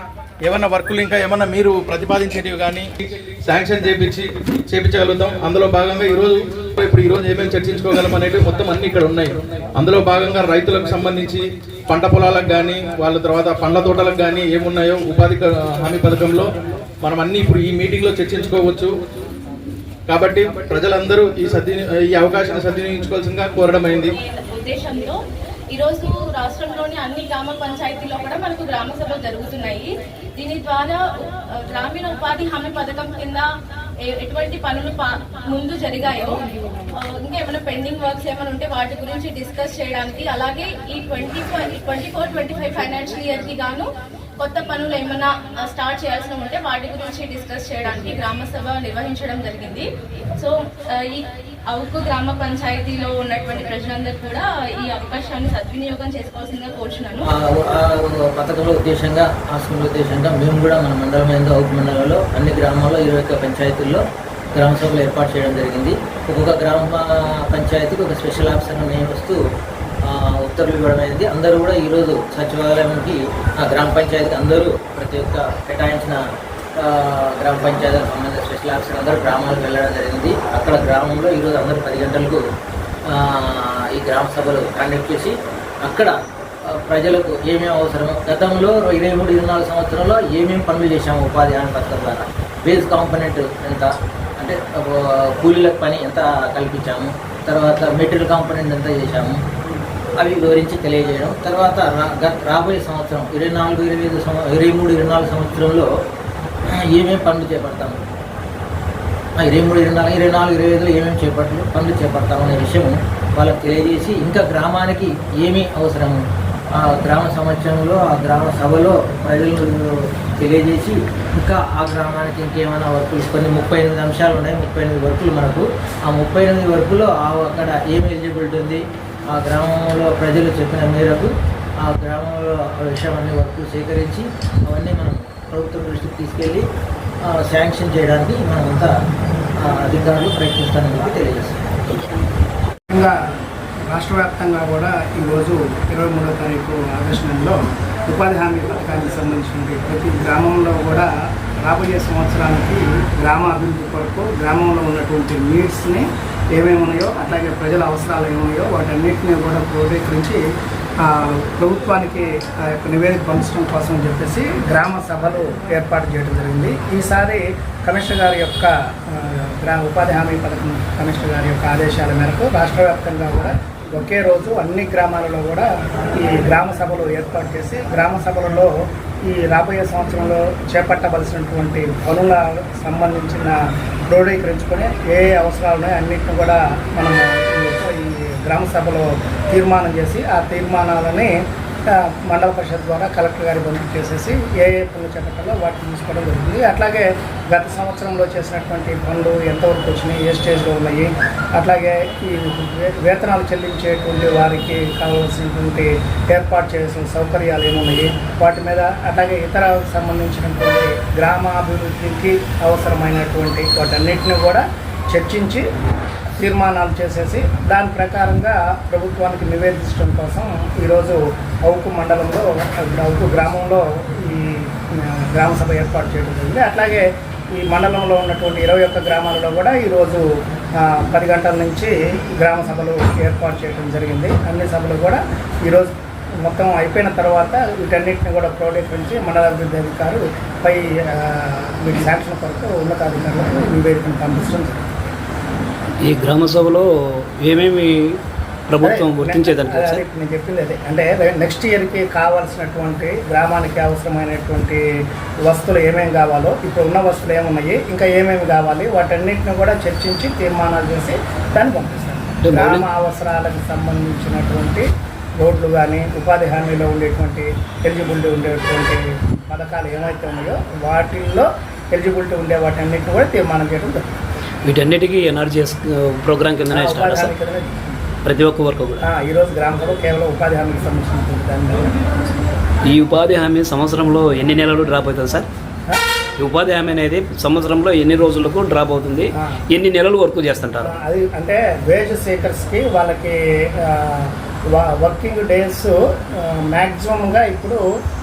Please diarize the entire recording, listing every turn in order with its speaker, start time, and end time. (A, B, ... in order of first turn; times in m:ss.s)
0:00.4-0:02.9 A
0:03.4-0:16.5 A
0:17.0-0:18.9 A
0:20.1-0:24.1 A
0:24.2-0:25.2 B
0:25.7-0:33.5 B
0:34.1-0:36.4 B
0:36.9-0:43.9 B
0:44.4-0:57.3 B
0:57.2-1:04.0 C
1:04.5-1:09.4 C
1:10.1-1:16.2 C
1:16.8-1:22.4 C
1:23.1-1:26.1 C
1:26.7-1:39.4 C
1:40.2-1:45.9 C
1:46.8-1:48.0 C
1:49.4-1:56.2 C
1:56.8-2:11.3 C
2:11.8-2:16.6 C
2:17.3-2:18.9 C
2:19.6-2:22.0 C
2:23.9-2:31.1 D
2:31.6-2:40.4 D
2:41.0-2:58.7 D
2:59.3-3:03.6 D
3:04.1-3:11.3 D
3:11.9-3:35.6 D
3:36.4-3:50.2 D
3:50.8-4:05.1 D
4:06.0-4:08.2 E
4:08.7-4:10.0 E
4:08.8-4:14.8 D
4:15.4-4:24.8 D
4:22.4-4:22.8 E
4:25.4-4:34.0 D
4:34.6-4:37.3 E
4:36.7-4:38.0 D
4:38.2-4:39.0 E
4:39.0-4:41.9 D
4:42.9-4:45.5 E
4:46.4-4:50.9 E
4:49.4-4:49.6 D
4:50.8-4:57.8 D